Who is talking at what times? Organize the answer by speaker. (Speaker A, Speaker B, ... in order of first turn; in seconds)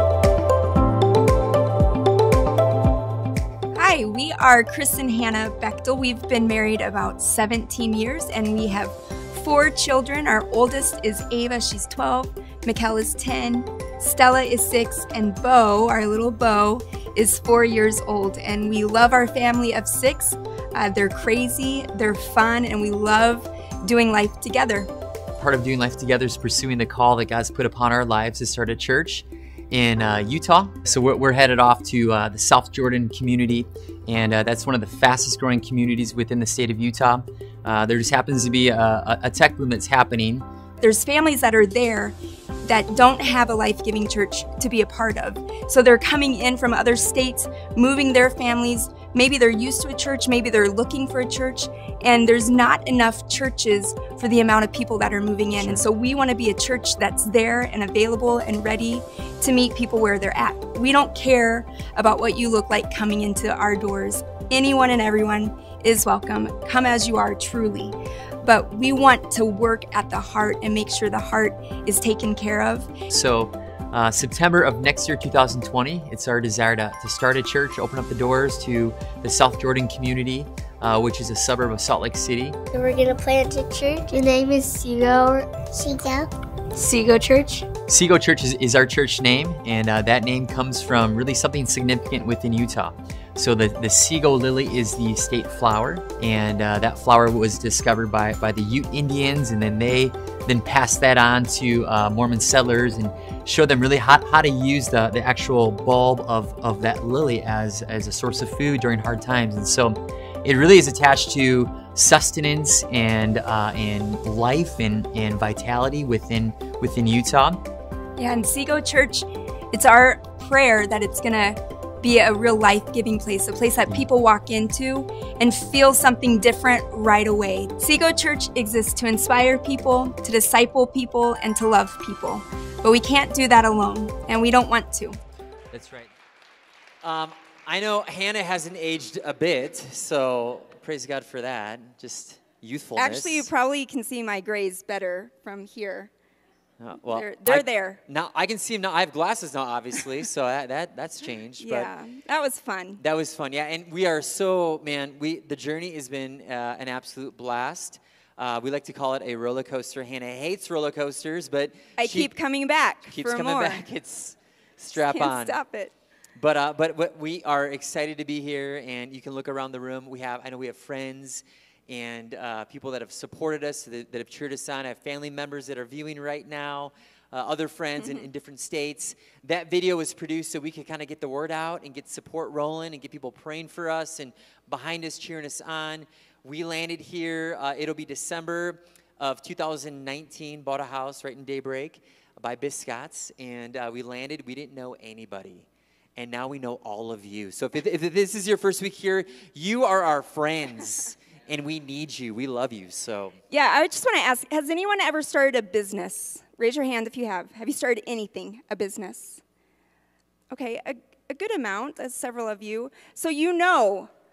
Speaker A: 3.8-24.9, 40.8-72.9, 118.2-135.2, 142.9-146.1, 147.1-148.0, 151.6-153.0, 162.0-163.8, 164.9-165.9, 178.0-178.2, 203.5-209.4, 210.5-214.1
Speaker B: 25.4-40.5, 73.1-82.6, 87.8-117.6
Speaker C: 82.7-86.3
Speaker D: 135.7-136.1, 137.0-143.5, 146.8-151.9, 153.0-162.3, 163.1-165.6, 166.4-203.4